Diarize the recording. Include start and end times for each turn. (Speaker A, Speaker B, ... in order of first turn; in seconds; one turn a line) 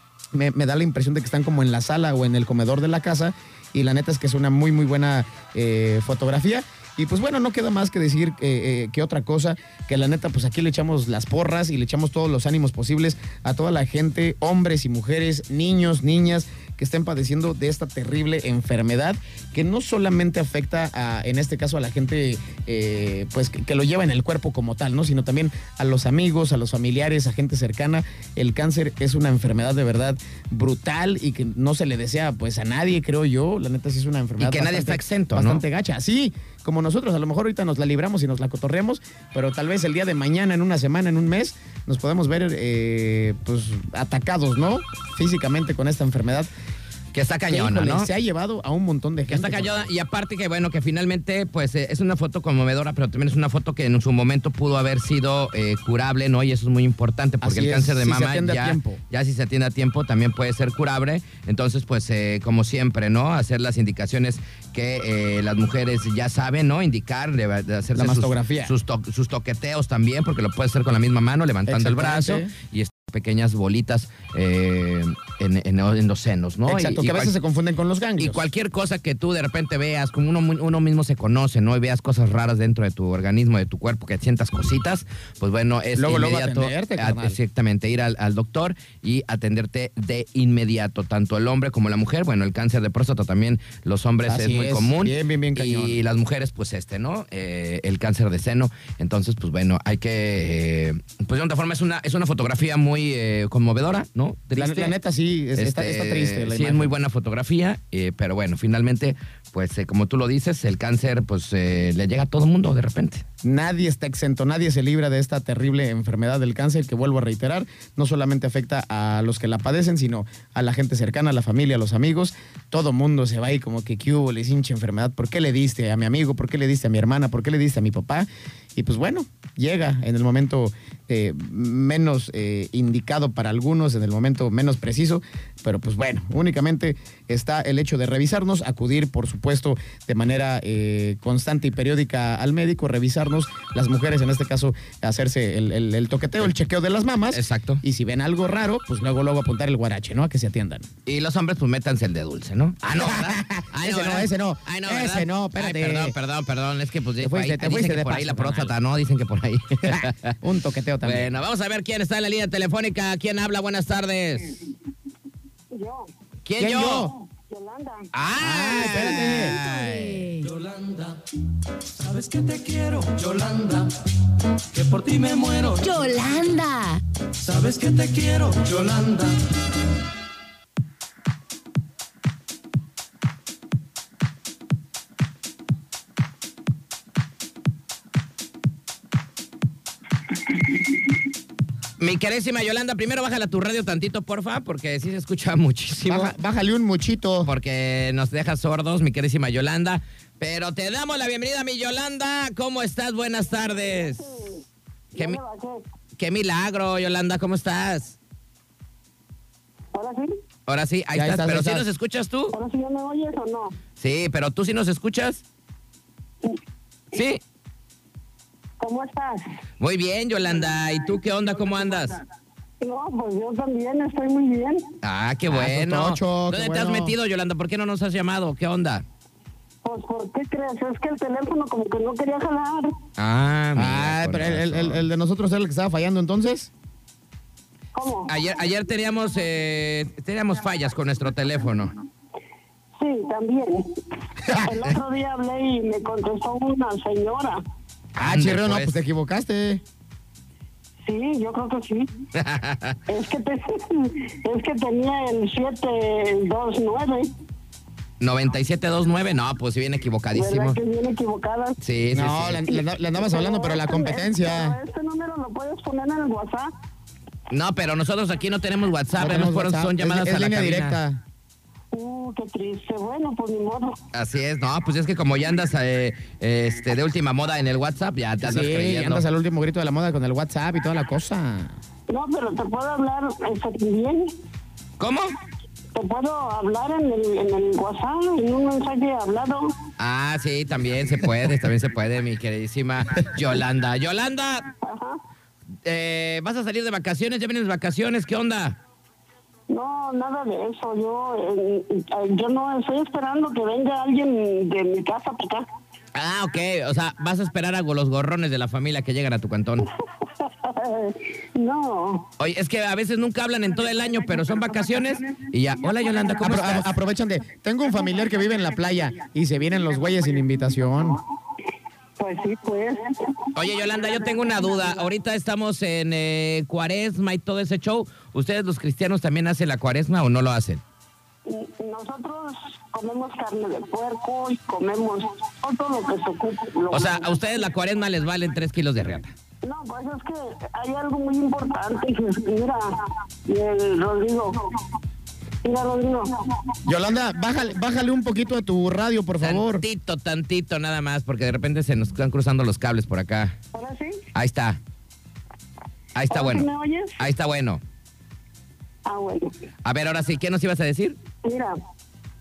Speaker A: 0.3-46.5
Speaker B: 34.4-35.6
Speaker B: 47.1-48.1
Speaker A: 47.5-49.9
Speaker B: 49.3-77.3
Speaker A: 57.4-59.0
Speaker A: 68.0-68.7
Speaker A: 71.7-72.5
Speaker A: 76.7-78.4
Speaker B: 78.2-105.0
Speaker A: 86.0-87.4
Speaker A: 94.3-96.0
Speaker A: 104.6-106.9
Speaker B: 105.6-113.2
Speaker A: 113.4-150.9
Speaker B: 147.3-147.8
Speaker B: 151.1-160.4
Speaker A: 153.0-156.2
Speaker A: 157.2-158.7
Speaker A: 159.8-161.3
Speaker B: 161.0-164.6
Speaker C: 165.7-166.1
Speaker B: 166.4-167.1
Speaker A: 166.6-167.1
Speaker C: 167.5-168.1
Speaker B: 168.1-170.3
Speaker A: 168.4-169.6
Speaker D: 169.6-170.5
Speaker E: 170.4-171.2
Speaker E: 171.9-174.0
Speaker E: 174.7-175.9
Speaker D: 175.8-177.0
Speaker E: 177.4-179.4
Speaker B: 192.0-196.3
Speaker A: 196.1-197.5
Speaker B: 197.4-204.4
Speaker C: 204.3-204.5
Speaker C: 205.1-205.8
Speaker B: 206.2-208.2
Speaker C: 209.9-210.3
Speaker B: 210.7-212.6
Speaker A: 211.2-211.9
Speaker C: 212.5-213.8
Speaker B: 214.0-215.4
Speaker B: 217.1-217.4
Speaker C: 218.8-219.5
Speaker B: 219.8-222.2
Speaker C: 222.8-224.9
Speaker B: 225.0-229.1
Speaker A: 225.5-227.1
Speaker C: 229.8-232.9
Speaker B: 233.2-235.0
Speaker A: 233.8-236.7
Speaker C: 237.9-238.3
Speaker B: 238.3-241.9
Speaker C: 243.0-244.0
Speaker C: 244.5-247.6
Speaker B: 248.2-248.9
Speaker A: 248.2-249.8
Speaker C: 251.1-252.1
Speaker B: 252.3-253.0
Speaker C: 253.1-257.3
Speaker B: 258.2-260.8
Speaker C: 260.3-261.8
Speaker B: 261.8-262.6
Speaker A: 262.1-264.8
Speaker C: 263.2-266.7
Speaker B: 267.5-271.0
Speaker A: 269.2-271.2
Speaker C: 271.9-274.0
Speaker B: 274.1-279.2
Speaker A: 278.4-281.8
Speaker C: 282.1-284.3
Speaker B: 285.0-285.3
Speaker C: 285.9-289.8
Speaker B: 290.0-294.7
Speaker C: 294.8-295.2
Speaker B: 295.9-298.8
Speaker C: 299.7-305.7
Speaker B: 306.1-309.9
Speaker C: 310.4-312.3
Speaker B: 312.4-316.9
Speaker A: 316.4-321.2
Speaker C: 322.2-323.1
Speaker B: 323.5-330.8
Speaker C: 331.5-337.3
Speaker B: 336.9-339.3
Speaker C: 339.6-344.6
Speaker C: 345.6-346.4
Speaker A: 346.9-349.8
Speaker B: 349.4-353.6
Speaker C: 353.7-354.2
Speaker B: 354.4-354.8
Speaker B: 356.1-356.7
Speaker C: 356.3-357.2
Speaker B: 357.2-357.8
Speaker C: 359.1-359.5
Speaker B: 359.9-361.2
Speaker C: 361.4-361.8